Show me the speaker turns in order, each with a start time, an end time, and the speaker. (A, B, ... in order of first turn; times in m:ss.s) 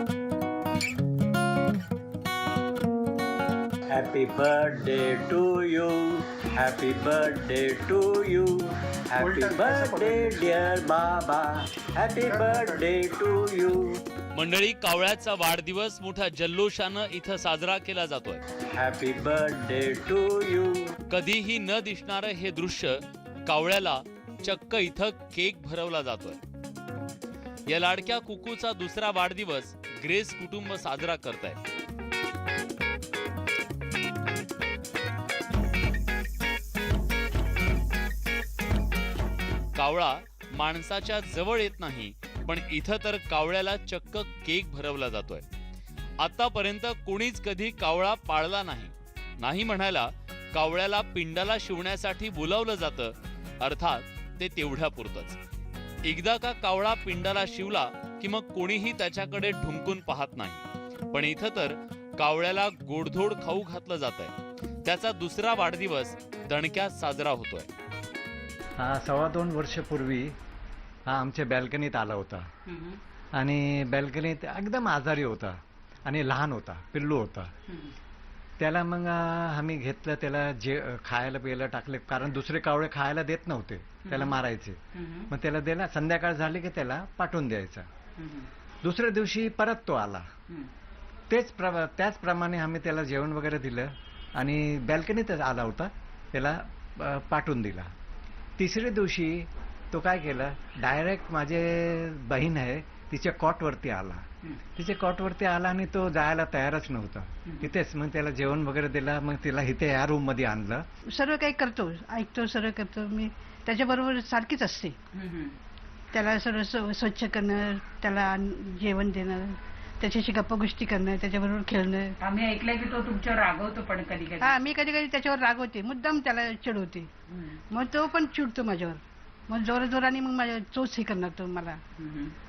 0:03.9-0:14.0 A
0:14.3-0:18.4 B
0:18.7-0:20.9 A
0:21.1-0:26.4 B
0:27.7-0:31.6 B
0:39.8-0:45.4 B
0:46.2-0:55.4 B
0:56.0-1:07.7 B
1:08.8-1:10.4 C
1:11.1-1:12.5 C
1:12.7-1:13.0 D
1:13.4-1:17.5 C
1:18.6-1:27.9 C
1:24.0-1:24.4 D
1:25.0-1:25.3 D
1:28.2-1:28.5 D
1:28.8-1:30.3 C
1:31.3-1:37.9 C
1:38.6-1:50.8 C
1:51.1-1:55.0 E
1:55.1-1:55.5 D
1:56.1-2:02.1 E
2:02.2-2:04.4 D
2:04.4-2:07.1 E
2:07.7-2:11.8 E
2:12.0-2:12.3 D